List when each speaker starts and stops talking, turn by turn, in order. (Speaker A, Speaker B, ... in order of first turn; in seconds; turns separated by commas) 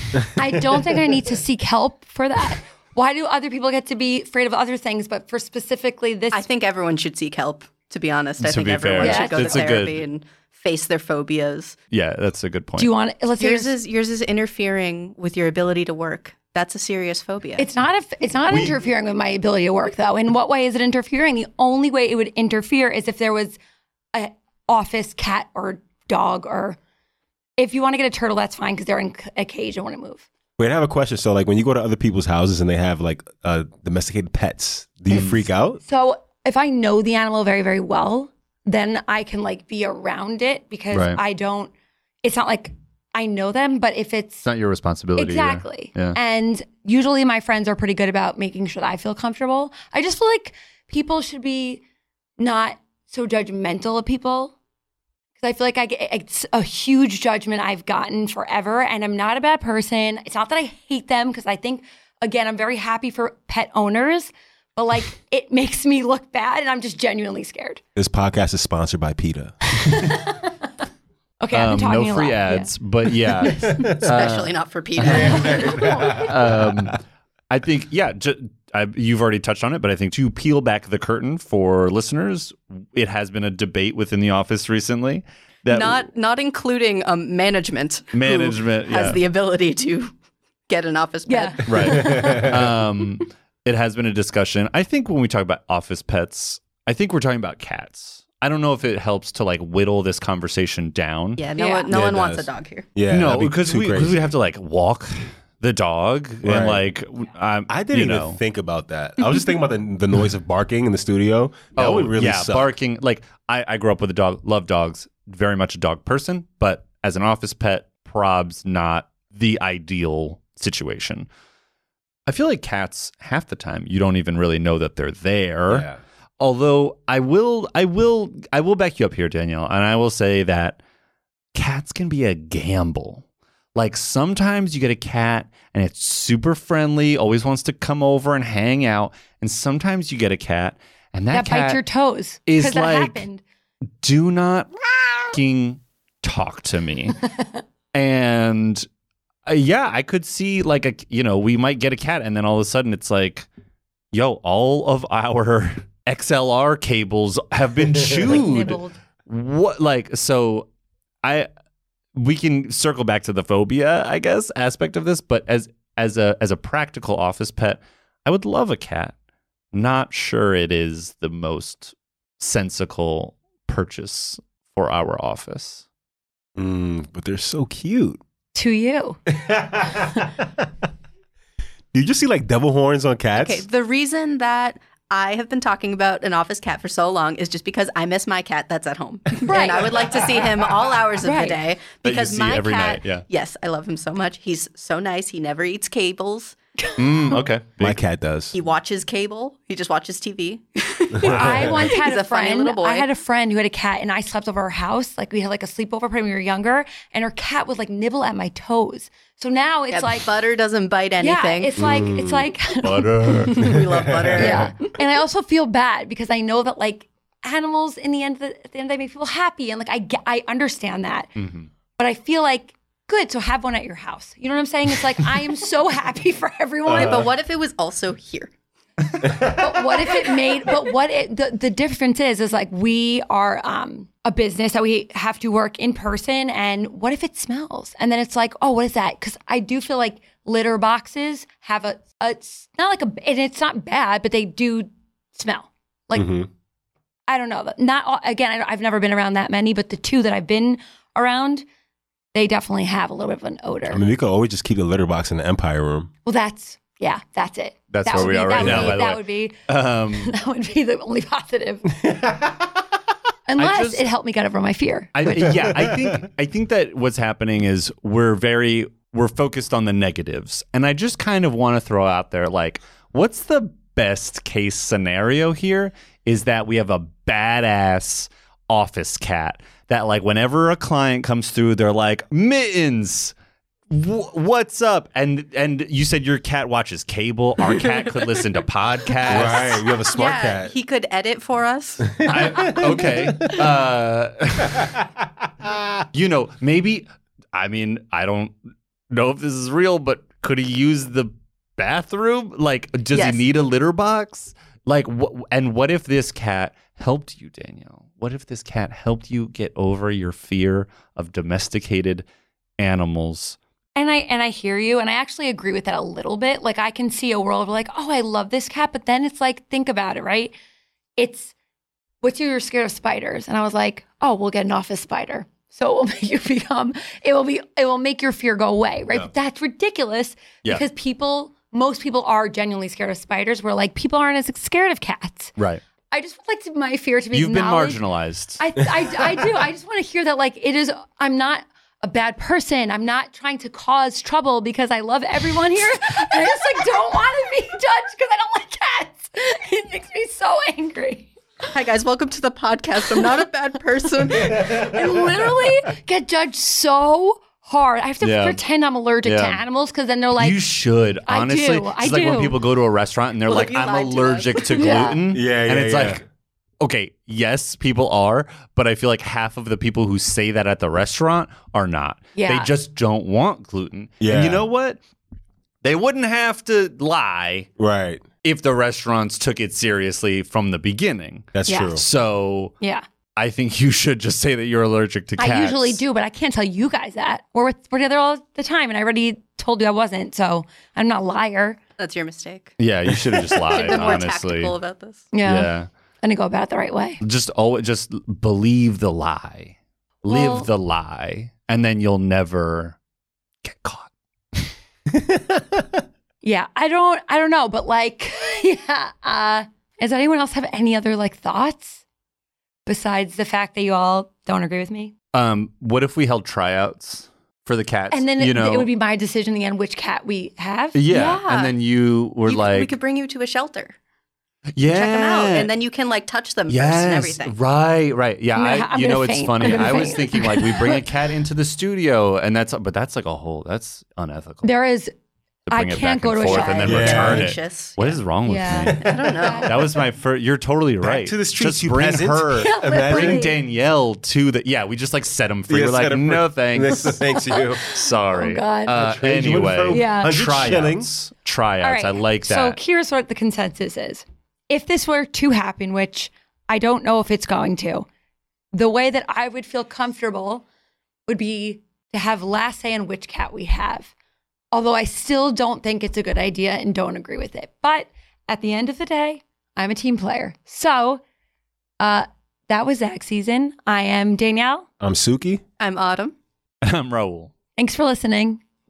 Speaker A: 0.4-6.5, Speaker B: 6.3-11.8, Speaker C: 8.4-10.1, Speaker A: 9.0-9.7, Speaker C: 11.9-12.9, Speaker A: 12.8-13.8, Speaker B: 13.4-17.7, Speaker A: 17.6-23.6, Speaker A: 24.1-26.8, Speaker A: 27.6-30.3, Speaker D: 30.6-35.8, Speaker C: 35.1-35.4, Speaker A: 35.1-41.7, Speaker C: 40.9-41.2, Speaker A: 42.2-44.5, Speaker C: 44.5-46.2, Speaker A: 45.2-51.8, Speaker A: 52.4-54.5, Speaker A: 55.4-67.8, Speaker D: 68.0-70.0, Speaker A: 69.7-70.7, Speaker A: 71.4-72.7, Speaker C: 71.5-74.5, Speaker A: 73.4-73.8, Speaker B: 73.8-75.7, Speaker A: 75.1-76.3, Speaker C: 75.2-86.1, Speaker D: 75.3-76.2, Speaker B: 85.7-90.1, Speaker C: 88.1-89.2, Speaker B: 90.7-92.4, Speaker A: 91.3-92.7, Speaker C: 91.7-101.5, Speaker B: 101.4-102.9, Speaker A: 101.6-101.9, Speaker D: 101.9-104.2, Speaker C: 103.1-108.4, Speaker D: 106.4-106.9, Speaker D: 107.7-112.7, Speaker C: 111.8-121.3, Speaker C: 122.3-125.9, Speaker D: 125.7-126.0, Speaker C: 126.4-130.8, Speaker C: 131.6-133.2, Speaker C: 133.8-141.8, Speaker A: 141.3-143.4, Speaker C: 142.5-143.2, Speaker C: 144.0-147.3, Speaker C: 147.9-148.8, Speaker C: 149.5-153.5, Speaker C: 154.1-160.7, Speaker A: 158.2-159.0, Speaker C: 161.2-161.5, Speaker C: 162.2-169.1, Speaker C: 169.7-175.8, Speaker D: 176.6-178.2, Speaker A: 178.5-179.2, Speaker D: 179.4-180.3, Speaker D: 181.9-183.7, Speaker B: 183.3-196.6, Speaker A: 189.5-189.8, Speaker A: 191.2-191.6, Speaker C: 192.0-193.2, Speaker A: 196.8-197.4, Speaker C: 197.0-198.0, Speaker D: 197.8-198.6, Speaker B: 198.5-203.1, Speaker A: 201.2-210.3, Speaker D: 201.3-201.8, Speaker B: 209.9-211.9, Speaker A: 211.2-213.5, Speaker D: 211.8-212.5, Speaker C: 212.8-213.7, Speaker B: 213.2-215.0, Speaker A: 214.4-221.4, Speaker C: 221.4-221.7, Speaker A: 222.0-227.3, Speaker D: 226.9-227.3, Speaker B: 226.9-228.5, Speaker D: 229.2-229.6, Speaker A: 229.3-246.3, Speaker D: 246.2-246.5, Speaker A: 247.3-251.7, Speaker A: 252.3-254.0, Speaker D: 253.9-256.1, Speaker A: 256.2-262.1, Speaker C: 257.9-260.4, Speaker D: 258.6-259.0, Speaker A: 263.5-265.1, Speaker C: 263.6-264.1, Speaker C: 265.1-283.3, Speaker C: 283.9-289.9, Speaker D: 289.3-290.7, Speaker B: 290.1-292.2, Speaker C: 292.2-295.0, Speaker D: 292.3-293.3, Speaker C: 296.1-298.6, Speaker C: 299.1-312.3, Speaker B: 303.1-303.4, Speaker C: 312.8-313.6, Speaker A: 314.0-320.5, Speaker A: 321.2-321.5, Speaker A: 322.2-335.5, Speaker C: 335.6-335.8, Speaker A: 336.1-338.0, Speaker C: 337.3-338.6, Speaker A: 338.6-351.3, Speaker B: 351.7-354.7, Speaker A: 354.6-360.7, Speaker C: 358.2-358.6, Speaker C: 359.2-359.6, Speaker C: 360.4-366.2, Speaker A: 361.3-362.6, Speaker B: 363.5-365.1, Speaker A: 364.7-365.2, Speaker D: 365.3-366.2, Speaker C: 366.8-375.0, Speaker A: 372.4-372.7, Speaker D: 374.2-374.6, Speaker C: 375.8-377.7, Speaker D: 377.8-378.2, Speaker C: 378.4-382.7, Speaker D: 381.5-382.0, Speaker A: 381.7-382.0, Speaker C: 383.4-386.0, Speaker A: 385.4-391.8, Speaker B: 392.0-392.7, Speaker C: 392.8-394.8, Speaker B: 393.4-395.3, Speaker A: 395.3-397.2, Speaker C: 395.4-395.9, Speaker C: 397.2-403.0, Speaker A: 400.3-400.7, Speaker C: 403.6-404.7, Speaker D: 405.1-405.8, Speaker A: 406.4-412.0, Speaker A: 412.9-415.1, Speaker C: 415.3-418.9, Speaker A: 418.1-421.0, Speaker C: 420.9-422.9, Speaker B: 421.1-421.8, Speaker B: 422.5-424.0, Speaker C: 424.8-425.7, Speaker B: 424.9-427.6, Speaker C: 426.7-434.7, Speaker A: 428.5-431.1, Speaker B: 429.6-430.2, Speaker A: 434.6-435.1, Speaker C: 435.7-447.3, Speaker A: 435.7-437.3, Speaker B: 436.4-438.2, Speaker D: 436.8-437.5, Speaker A: 438.4-439.9, Speaker B: 438.7-439.9, Speaker D: 441.0-443.5, Speaker A: 442.6-443.6, Speaker D: 445.7-447.8, Speaker A: 447.5-449.0, Speaker C: 447.8-452.8, Speaker D: 448.9-451.1, Speaker A: 449.9-450.7, Speaker A: 451.8-458.1, Speaker A: 458.7-460.6, Speaker A: 461.3-464.1, Speaker A: 464.7-471.2, Speaker A: 472.0-474.9, Speaker D: 475.0-475.6, Speaker B: 475.8-476.4, Speaker C: 476.8-477.5, Speaker A: 477.8-478.6